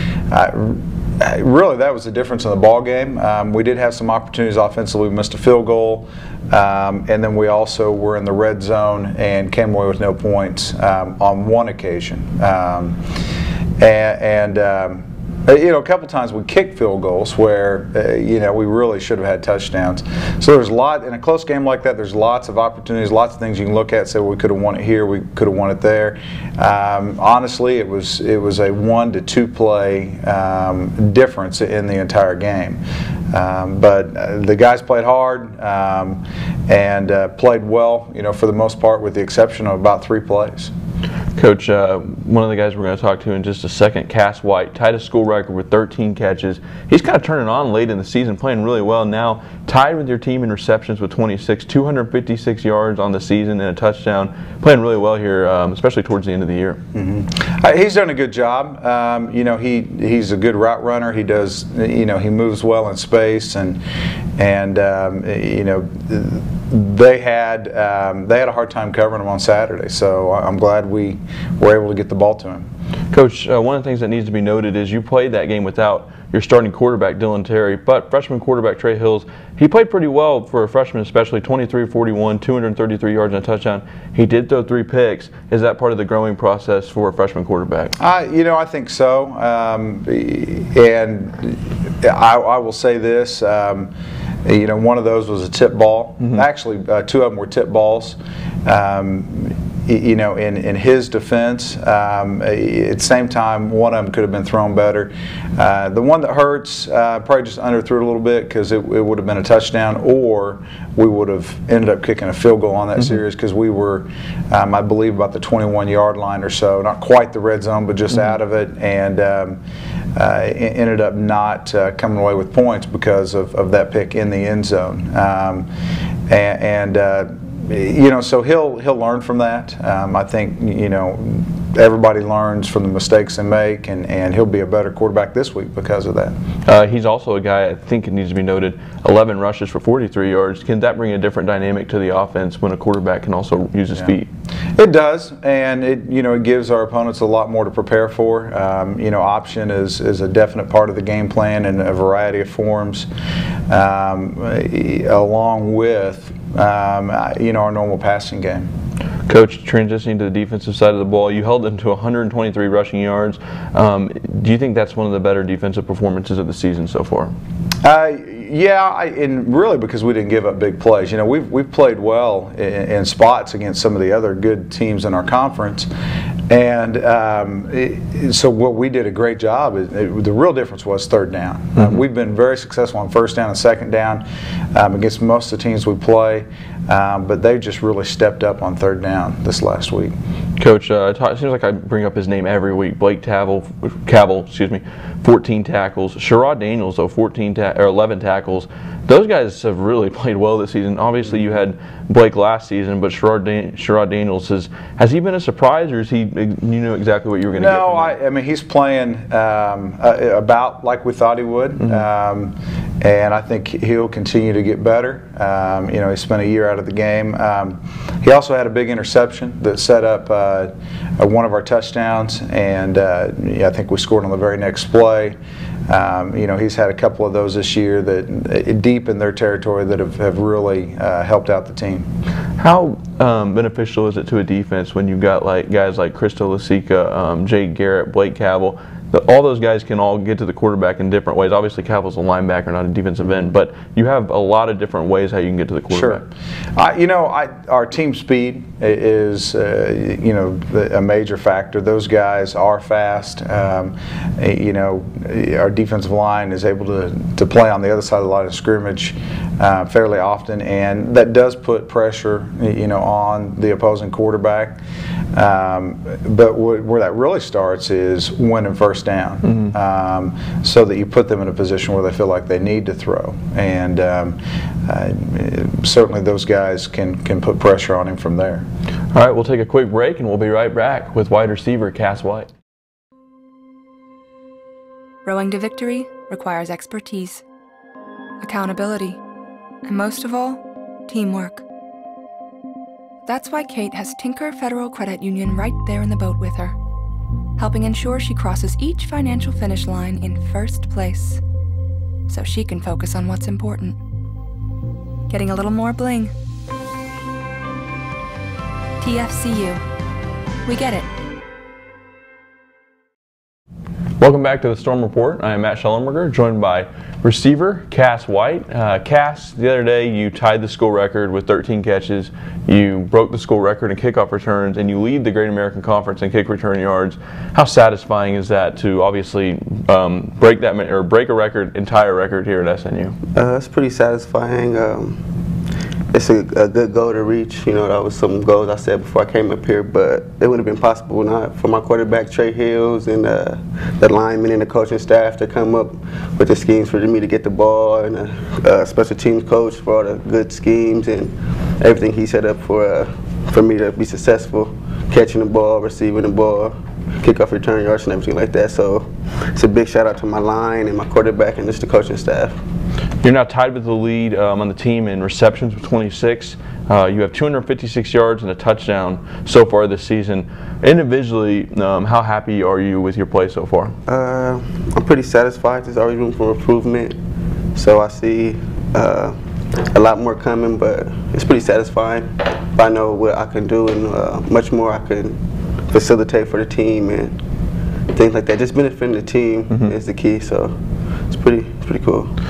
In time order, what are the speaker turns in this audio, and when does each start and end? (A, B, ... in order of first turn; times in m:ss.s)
0:00.3-0:13.0 A
0:13.8-0:40.7 A
0:41.4-0:56.8 B
0:56.9-1:03.8 A
1:04.4-1:12.7 A
1:13.1-1:27.9 B
1:28.0-1:33.9 A
1:34.4-1:59.6 A
2:00.2-2:05.7 A
2:06.3-2:16.4 A
2:16.7-2:24.3 B
2:24.8-2:33.1 A
2:33.7-2:38.7 A
2:39.3-2:47.3 B
2:47.8-2:55.9 A
2:56.5-3:10.2 A
3:10.6-3:28.2 B
3:27.5-3:45.4 A
3:31.8-3:32.1 B
3:45.9-3:52.1 A
3:52.6-4:06.3 B
4:05.9-4:06.2 A
4:06.8-4:24.8 A
4:25.3-4:38.6 A
4:39.1-4:42.5 B
4:45.2-4:47.4 C
4:48.4-4:49.2 C
4:49.8-4:51.6 C
4:53.3-4:56.8 C
4:57.6-5:01.4 C
5:02.3-5:04.0 C
5:05.3-5:06.3 C
5:09.0-5:09.8 C
5:10.6-5:11.1 C
5:14.2-5:33.2 B
5:33.4-5:35.2 D
5:36.1-6:02.6 D
6:03.2-6:14.0 B
6:14.1-6:17.2 D
6:17.8-6:19.4 D
6:19.9-6:27.4 D
6:28.1-6:30.8 D
6:31.3-6:32.3 D